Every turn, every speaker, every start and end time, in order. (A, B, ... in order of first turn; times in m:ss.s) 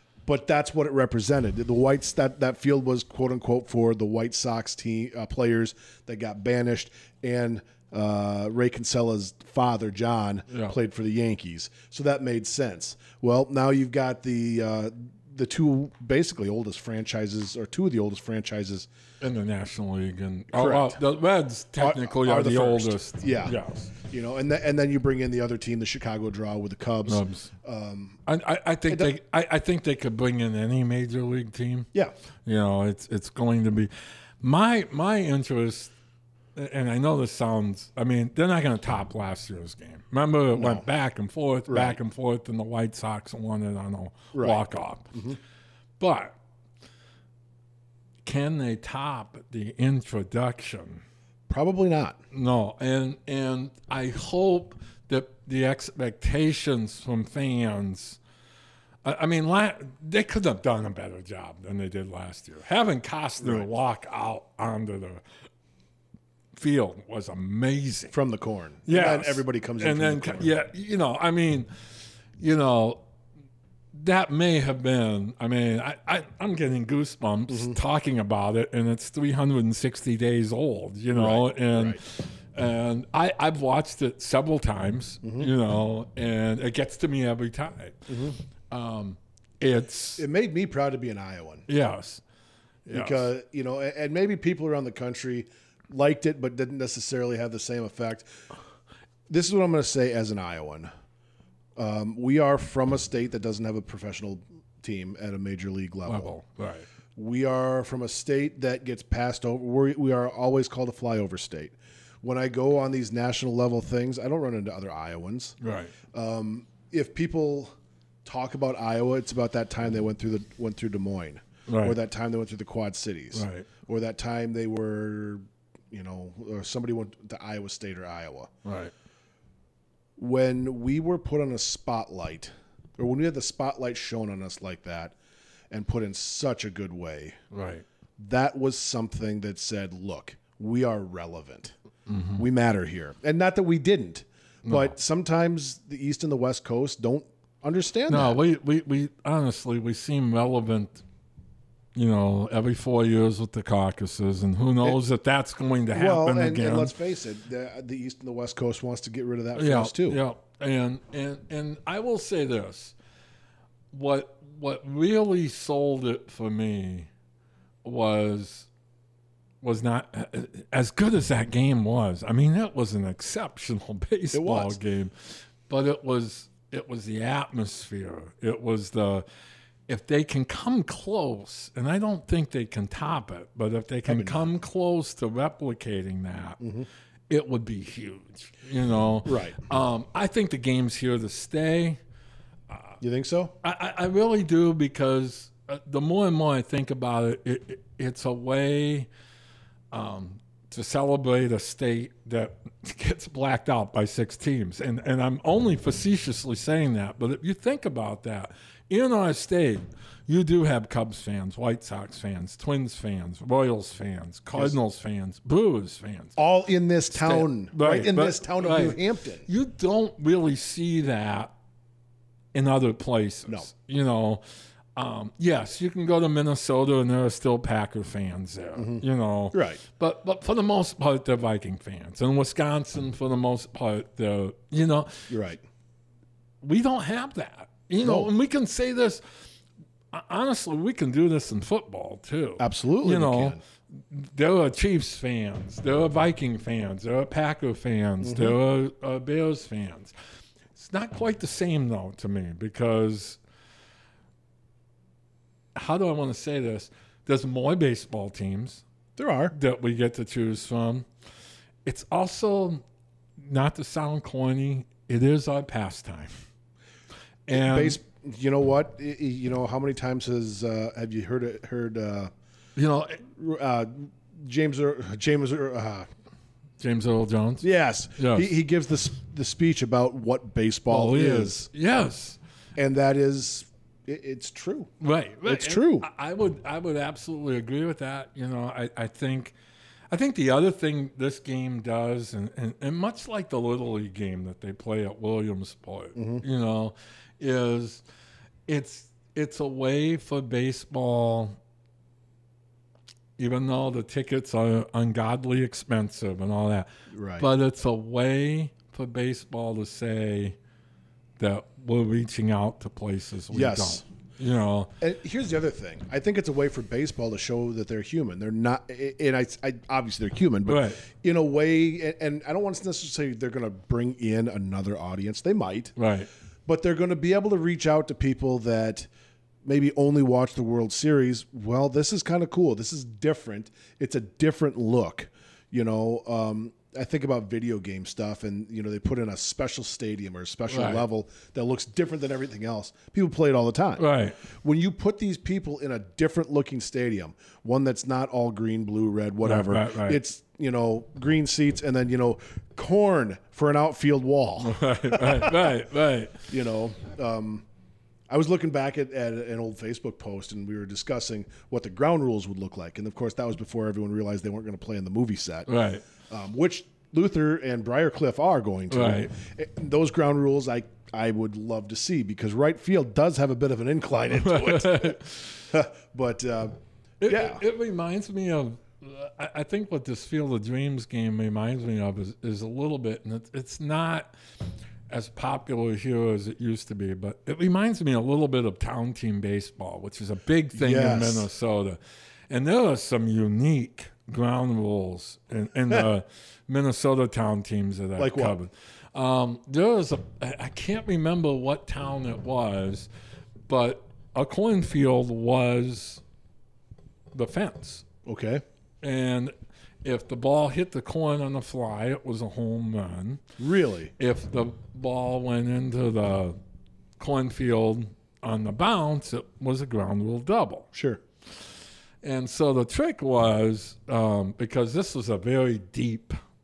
0:00.2-0:18.9 A
0:10.5-0:10.7 B
0:19.2-0:23.9 B
0:20.5-0:21.0 A
0:21.8-0:23.6 A
0:24.1-0:28.2 A
0:27.1-0:27.5 B
0:28.2-0:31.9 B
0:32.4-0:33.9 B
0:34.4-0:35.9 B
0:36.5-0:45.1 B
0:40.5-0:40.8 A
0:41.7-0:42.0 A
0:44.3-0:45.4 A
0:46.0-0:46.4 B
0:48.2-0:51.0 B
0:51.5-0:52.2 A
0:52.3-0:58.2 B
0:59.0-1:05.2 B
1:03.4-1:03.7 A
1:06.5-1:08.1 B
1:08.1-1:10.5 A
1:08.9-1:11.7 B
1:12.4-1:13.0 B
1:13.9-1:30.2 B
1:17.5-1:17.8 A
1:21.1-1:22.0 A
1:25.2-1:25.5 A
1:28.1-1:28.4 A
1:30.2-1:31.7 A
1:31.7-1:32.2 B
1:32.8-1:33.3 B
1:32.9-1:38.3 A
1:39.3-1:40.9 A
1:41.8-1:46.3 A
1:46.0-1:46.9 B
1:47.2-1:55.6 A
1:55.6-1:55.9 B
1:56.1-1:57.7 A
1:58.2-2:08.5 A
2:01.7-2:02.0 B
2:03.3-2:03.7 B
2:08.6-2:08.9 B
2:10.2-2:15.1 A
2:15.7-2:17.4 A
2:17.5-2:17.8 B
2:18.2-2:21.7 A
2:22.1-2:22.4 B
2:22.4-2:28.4 A
2:24.6-2:24.9 B
2:28.1-2:31.0 B
2:31.9-2:36.9 B
2:35.9-2:40.2 A
2:39.6-2:43.0 B
2:43.9-2:47.1 B
2:47.8-2:48.7 B
2:49.6-2:59.2 B
2:54.3-2:54.8 A
2:59.9-3:06.6 B
3:04.0-3:04.5 A
3:06.6-3:06.9 A
3:07.3-3:12.0 B
3:09.2-3:09.6 A
3:12.7-3:12.9 B
3:13.0-3:13.5 A
3:13.6-3:19.1 B
3:19.9-3:36.4 B
3:36.4-3:39.4 A
3:37.1-3:41.5 B
3:42.5-3:44.4 B
3:44.9-3:55.3 B
3:48.8-3:49.8 A
3:55.3-3:55.6 A
3:56.6-3:59.2 B
3:58.0-3:58.3 A
4:00.1-4:10.1 B
4:02.6-4:03.6 A
4:08.2-4:08.6 A
4:10.7-4:13.4 B
4:15.7-4:18.8 B
4:19.2-4:19.5 A
4:19.5-4:21.1 B
4:21.8-4:22.8 B
4:23.4-4:26.3 B
4:27.5-4:28.0 B
4:27.5-4:32.3 A
4:32.8-4:33.2 B
4:33.3-4:36.1 A
4:36.8-4:37.6 B
4:37.6-4:41.7 A
4:38.2-4:38.5 B
4:40.9-4:42.4 B
4:42.8-4:44.9 A
4:45.0-4:49.5 B
4:45.4-4:46.1 A
4:50.1-4:58.0 B
4:56.2-4:56.4 A
4:58.7-5:01.6 B
5:03.4-5:06.9 B
5:07.1-5:07.5 A
5:07.4-5:10.6 B
5:11.4-5:14.9 B
5:13.5-5:14.0 A
5:15.0-5:25.9 A
5:20.6-5:21.0 B
5:26.0-5:26.3 B
5:26.6-5:29.1 A
5:29.6-5:55.7 A
5:40.7-5:41.0 B
5:44.0-5:44.4 B
5:49.4-5:50.2 B
5:54.6-5:56.4 B
5:56.5-5:57.6 A
5:58.3-6:05.8 A
6:05.7-6:06.0 B
6:06.3-6:16.7 A
6:08.9-6:09.3 B
6:14.3-6:15.5 B
6:17.2-6:24.3 B
6:17.2-6:17.6 A
6:25.1-6:43.1 B
6:30.7-6:31.5 A
6:38.2-6:38.6 A
6:43.7-6:46.2 B
6:47.3-6:48.0 B
6:48.2-6:48.6 A
6:49.0-6:49.5 B
6:50.0-6:53.4 B
6:53.6-6:54.1 A
6:54.2-6:56.6 B
6:57.2-7:00.9 B
7:00.9-7:01.2 A
7:02.2-7:06.4 B